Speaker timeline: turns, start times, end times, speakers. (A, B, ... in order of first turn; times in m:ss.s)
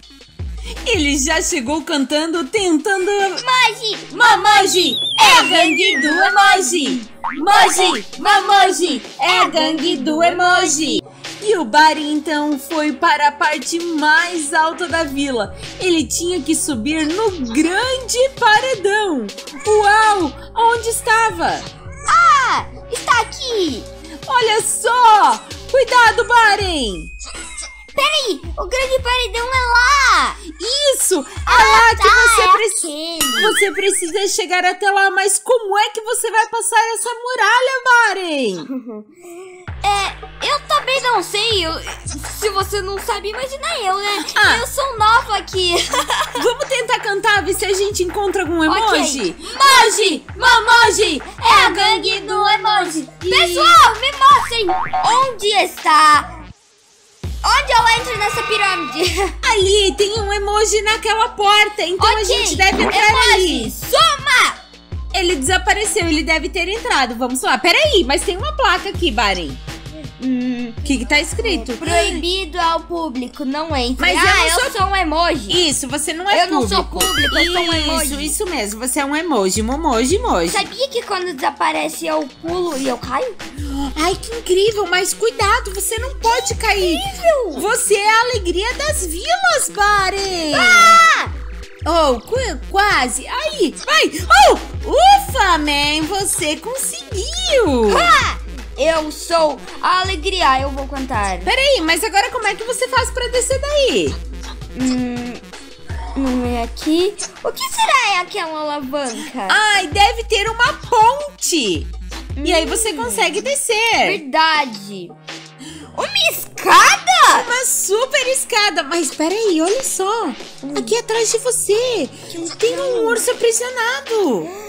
0:00.8-0:03.4 A
0:03.4-0:11.0 B
0:04.1-0:21.7 A
0:22.1-0:23.9 B
0:24.3-0:27.1 A
0:27.9-0:30.4 B
0:30.5-0:32.8 A
0:31.4-0:33.6 B
0:33.3-0:38.7 A
0:38.7-0:39.0 B
0:39.8-0:46.5 B
0:44.3-0:44.6 A
0:46.3-0:53.8 A
0:48.6-0:56.3 B
0:57.4-0:59.3 B
0:59.4-1:03.7 A
1:02.0-1:04.6 B
1:05.1-1:09.6 A
1:10.2-1:10.8 B
1:10.8-1:12.2 A
1:11.4-1:15.6 B
1:14.0-1:14.8 A
1:15.5-1:20.7 A
1:16.3-1:18.3 B
1:20.5-1:23.4 B
1:23.7-1:31.0 A
1:26.2-1:27.7 B
1:30.5-1:31.3 B
1:31.8-1:38.1 A
1:37.8-1:41.5 B
1:41.4-1:44.2 A
1:44.7-1:45.4 B
1:46.1-1:49.6 B
1:49.4-1:51.9 A
1:52.4-1:53.5 B
1:52.4-1:54.2 A
1:54.0-1:55.1 B
1:56.0-1:57.5 B
1:57.3-2:04.5 A
2:00.6-2:01.0 B
2:02.3-2:03.2 B